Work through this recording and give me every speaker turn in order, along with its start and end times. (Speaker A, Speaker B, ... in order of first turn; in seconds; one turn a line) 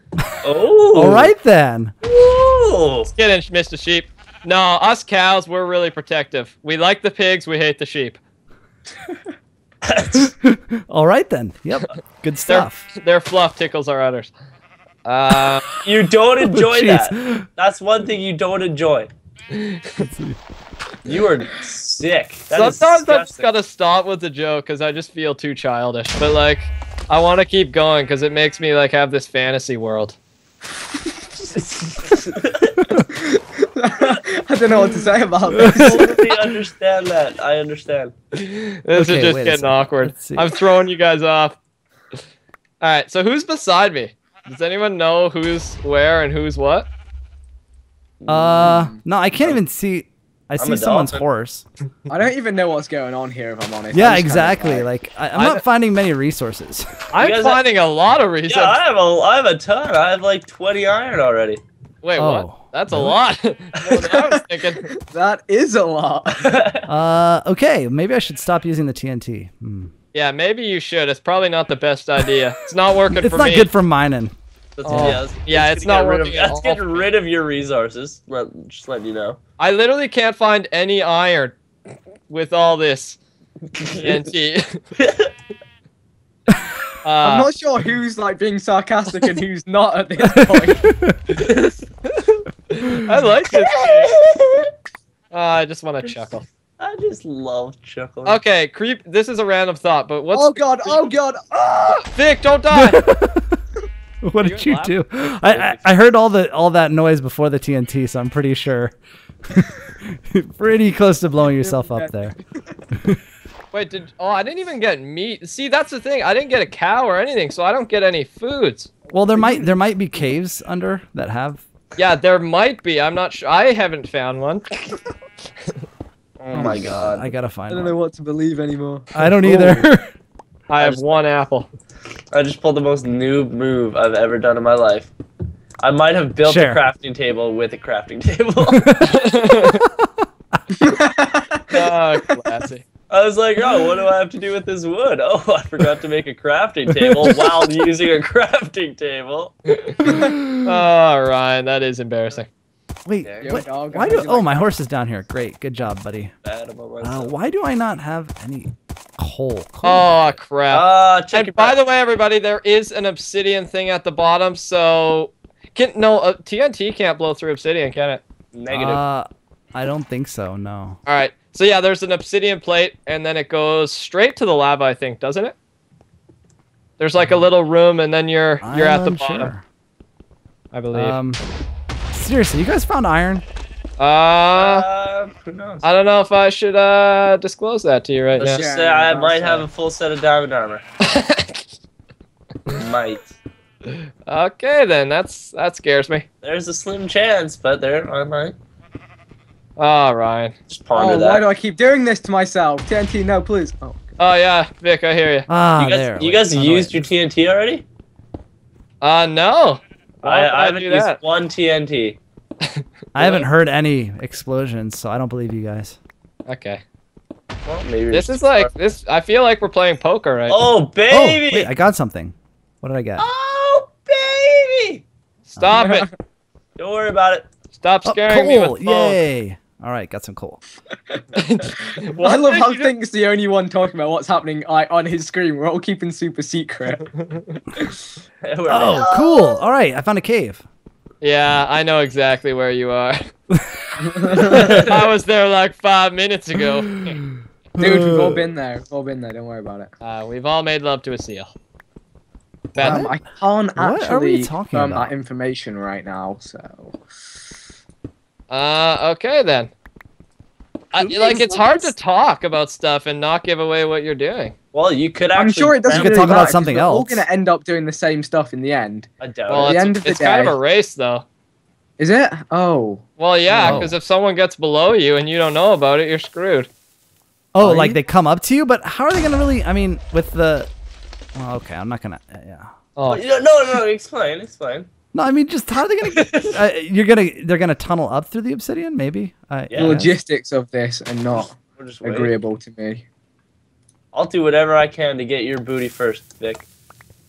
Speaker A: 0.4-1.3
Speaker B: 0.9-1.9
Speaker A: 2.0-3.1
Speaker C: 3.1-8.2
Speaker A: 9.8-10.3
Speaker B: 10.1-12.9
Speaker C: 12.4-14.3
Speaker C: 15.0-15.6
Speaker A: 15.8-19.1
Speaker B: 16.4-17.5
Speaker C: 19.5-20.0
Speaker B: 20.0-20.4
Speaker A: 21.0-23.5
Speaker C: 22.5-30.2
Speaker A: 31.5-32.8
Speaker D: 33.1-36.4
Speaker B: 35.5-36.2
Speaker A: 35.7-38.1
Speaker C: 38.3-41.6
Speaker B: 38.9-40.5
Speaker C: 42.8-46.9
Speaker A: 48.2-48.8
Speaker B: 48.3-51.6
Speaker D: 48.6-49.0
Speaker A: 50.6-51.2
Speaker D: 52.1-54.9
Speaker B: 53.9-57.1
Speaker C: 55.3-55.6
Speaker C: 57.1-58.8
Speaker A: 57.2-57.6
Speaker A: 58.5-61.6
Speaker C: 62.0-64.9
Speaker B: 62.2-63.2
Speaker D: 64.0-66.5
Speaker A: 66.4-66.9
Speaker B: 66.9-69.9
Speaker C: 70.1-73.7
Speaker B: 73.1-74.3
Speaker A: 74.8-79.4
Speaker C: 74.8-77.1
Speaker B: 74.9-75.2
Speaker C: 79.6-81.6
Speaker C: 82.3-83.2
Speaker A: 83.8-84.2
Speaker C: 83.8-84.8
Speaker A: 85.0-85.3
Speaker C: 87.0-87.5
Speaker D: 87.2-90.9
Speaker B: 90.8-91.2
Speaker A: 91.4-91.8
Speaker C: 92.0-94.2
Speaker A: 93.5-94.7
Speaker C: 95.3-96.5
Speaker A: 96.8-98.4
Speaker C: 98.2-101.1
Speaker D: 100.3-102.0
Speaker C: 101.8-103.0
Speaker B: 102.7-103.6
Speaker B: 104.2-108.9
Speaker C: 104.4-104.9
Speaker A: 105.5-105.8
Speaker B: 109.5-112.3
Speaker D: 111.6-112.4
Speaker B: 112.9-113.2
Speaker C: 113.7-118.9
Speaker B: 119.1-121.6
Speaker D: 119.3-119.7
Speaker C: 122.0-125.0
Speaker A: 126.4-127.3
Speaker B: 126.5-127.9
Speaker D: 126.5-126.8
Speaker D: 127.7-129.9
Speaker B: 129.1-130.1
Speaker C: 130.7-131.7
Speaker A: 132.3-135.1
Speaker A: 135.8-138.9
Speaker B: 136.4-136.8
Speaker B: 138.7-140.6
Speaker C: 139.0-139.9
Speaker D: 140.7-142.0
Speaker C: 141.7-142.8
Speaker A: 143.1-149.5
Speaker B: 146.9-147.7
Speaker C: 149.7-152.5
Speaker B: 150.1-150.5
Speaker B: 153.1-156.3
Speaker A: 153.2-153.5
Speaker D: 153.4-154.7
Speaker A: 156.4-157.3
Speaker B: 157.0-160.1
Speaker C: 159.8-168.2
Speaker A: 160.7-161.8
Speaker A: 168.5-169.0
Speaker B: 168.7-171.0
Speaker C: 171.1-175.5
Speaker C: 177.0-179.5
Speaker B: 178.6-179.6
Speaker C: 180.7-181.2
Speaker B: 180.9-181.4
Speaker B: 182.1-183.4
Speaker C: 184.0-184.8
Speaker A: 184.5-185.8
Speaker C: 185.8-188.6
Speaker A: 188.3-190.8
Speaker D: 188.5-189.7
Speaker C: 191.0-191.6
Speaker A: 192.7-193.3
Speaker C: 194.3-196.2
Speaker A: 196.4-198.6
Speaker C: 199.8-200.5
Speaker A: 200.7-201.4
Speaker D: 200.9-204.1
Speaker C: 204.2-205.5
Speaker B: 205.5-207.0
Speaker A: 205.8-207.8
Speaker C: 209.0-211.2
Speaker A: 210.2-212.2
Speaker C: 212.6-213.4
Speaker B: 213.1-216.0
Speaker C: 216.5-216.8
Speaker A: 217.7-218.7
Speaker C: 218.1-220.6
Speaker A: 220.5-221.7
Speaker B: 221.1-223.2
Speaker A: 223.2-225.0
Speaker C: 225.5-226.1
Speaker B: 225.6-225.9
Speaker D: 225.7-226.1
Speaker A: 226.8-227.5
Speaker C: 227.8-229.2
Speaker B: 228.0-230.6
Speaker D: 231.1-231.4
Speaker C: 231.3-232.9
Speaker D: 231.9-237.1
Speaker C: 237.2-237.6
Speaker A: 238.4-239.6
Speaker B: 238.7-240.6
Speaker C: 241.2-243.3
Speaker B: 243.5-244.4
Speaker D: 244.0-244.7
Speaker C: 244.3-247.2
Speaker A: 244.5-245.1
Speaker B: 247.1-248.5
Speaker D: 247.8-249.9
Speaker C: 250.0-251.5
Speaker C: 252.7-253.1
Speaker D: 252.8-257.0
Speaker B: 253.8-255.1
Speaker C: 258.5-259.7
Speaker C: 260.9-264.5
Speaker B: 261.0-261.7
Speaker A: 264.7-266.5
Speaker D: 265.4-270.6
Speaker B: 265.9-267.2
Speaker A: 269.2-269.9
Speaker C: 269.5-271.2
Speaker D: 272.0-273.8
Speaker C: 273.2-276.7
Speaker B: 273.6-273.9
Speaker B: 277.5-280.7
Speaker D: 277.6-278.0
Speaker B: 281.3-282.7
Speaker C: 282.9-283.2
Speaker A: 283.1-284.9
Speaker B: 285.1-290.1
Speaker A: 286.1-286.6
Speaker A: 289.7-290.0
Speaker D: 289.8-293.0
Speaker A: 291.3-292.3
Speaker A: 294.1-296.7